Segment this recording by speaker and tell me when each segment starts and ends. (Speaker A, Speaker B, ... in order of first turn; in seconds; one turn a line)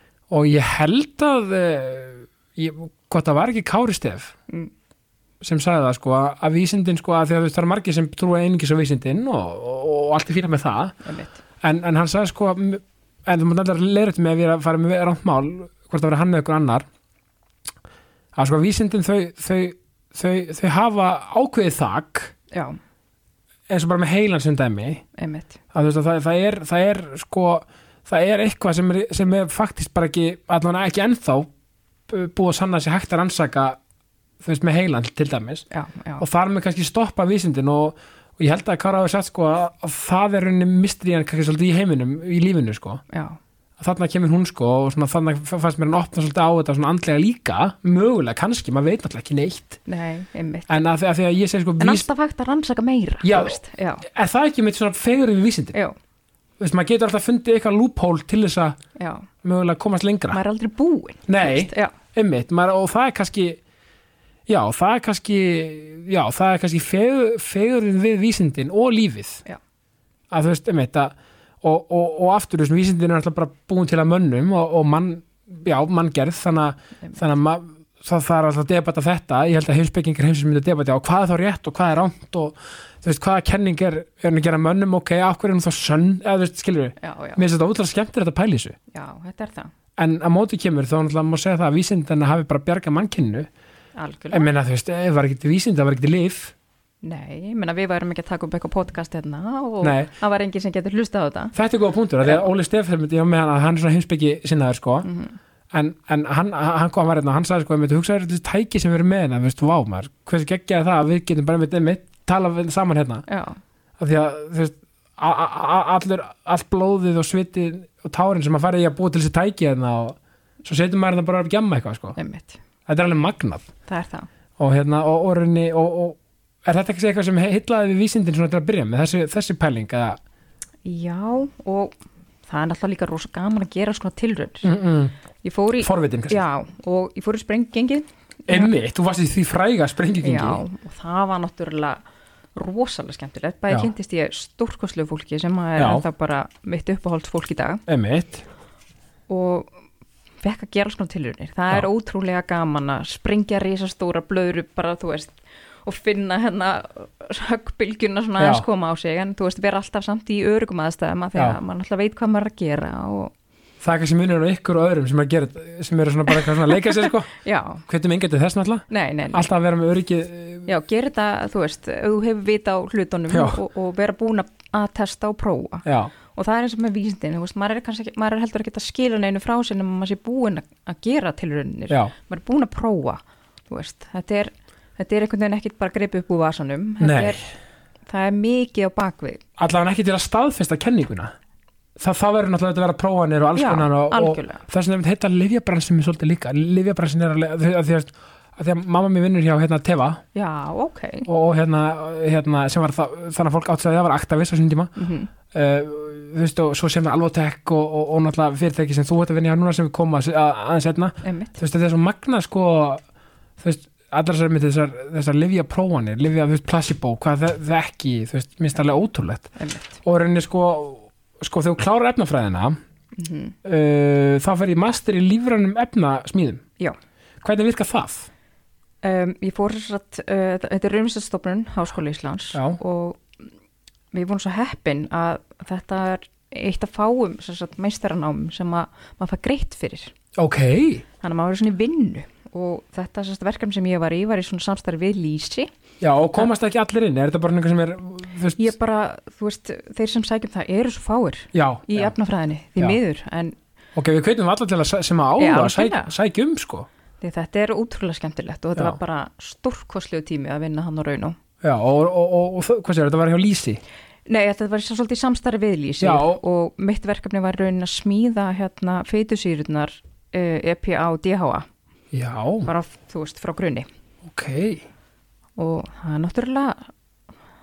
Speaker A: 0.3-4.3
Speaker A: 5.4-11.0
Speaker B: 11.0-11.4
Speaker A: 11.6-16.9
Speaker A: 18.4-22.3
Speaker B: 22.5-22.8
Speaker A: 23.7-25.0
Speaker B: 25.1-25.6
Speaker A: 25.7-31.5
Speaker A: 32.1-33.8
Speaker A: 34.4-35.6
Speaker B: 35.7-36.2
Speaker A: 36.2-43.0
Speaker B: 43.1-43.4
Speaker A: 43.8-49.8
Speaker B: 49.9-50.7
Speaker A: 50.7-52.1
Speaker B: 51.8-54.1
Speaker A: 53.2-55.8
Speaker A: 56.6-58.8
Speaker B: 59.0-59.3
Speaker A: 59.4-60.4
Speaker B: 60.3-62.0
Speaker A: 61.3-63.6
Speaker A: 64.5-69.5
Speaker A: 70.3-88.8
Speaker B: 87.0-87.4
Speaker B: 88.9-89.7
Speaker A: 90.0-93.5
Speaker B: 94.0-94.5
Speaker A: 94.3-96.5
Speaker B: 97.0-101.5
Speaker A: 99.8-100.1
Speaker A: 101.5-105.1
Speaker B: 105.0-105.4
Speaker A: 105.7-113.3
Speaker B: 113.3-113.6
Speaker A: 114.0-122.2
Speaker B: 122.2-122.6
Speaker A: 122.9-123.7
Speaker B: 123.9-124.3
Speaker A: 124.6-130.2
Speaker B: 130.8-132.0
Speaker B: 132.5-134.7
Speaker A: 134.6-135.1
Speaker B: 135.4-138.7
Speaker A: 135.8-136.4
Speaker A: 138.5-140.6
Speaker B: 140.2-142.0
Speaker B: 142.6-147.8
Speaker A: 145.8-146.1
Speaker A: 147.9-148.4
Speaker B: 149.3-149.7
Speaker B: 150.4-163.3
Speaker A: 158.4-158.6
Speaker A: 163.8-167.3
Speaker B: 166.3-167.8
Speaker A: 167.8-170.7
Speaker B: 168.9-169.4
Speaker B: 170.7-187.4
Speaker A: 173.3-173.6
Speaker A: 175.8-176.1
Speaker A: 187.0-187.4
Speaker B: 188.1-189.4
Speaker A: 189.6-191.3
Speaker A: 192.0-200.2
Speaker B: 193.6-194.6
Speaker B: 200.3-201.3
Speaker A: 201.3-204.9
Speaker B: 205.0-205.3
Speaker A: 205.5-213.0
Speaker B: 211.2-211.6
Speaker A: 213.6-222.8
Speaker B: 219.6-220.0
Speaker B: 223.1-223.6
Speaker A: 223.6-226.6
Speaker A: 227.4-228.3
Speaker B: 229.0-233.3
Speaker A: 232.5-232.8
Speaker B: 234.1-240.1
Speaker A: 240.4-241.1
Speaker B: 241.2-245.7
Speaker A: 246.0-248.7
Speaker B: 248.6-253.6
Speaker A: 251.5-252.1
Speaker A: 254.0-256.9
Speaker B: 255.4-256.1
Speaker B: 257.2-261.4
Speaker A: 261.6-263.8
Speaker B: 264.3-271.6
Speaker A: 266.0-266.4
Speaker A: 272.1-272.7
Speaker B: 272.6-273.9
Speaker A: 274.3-274.9
Speaker B: 275.6-276.9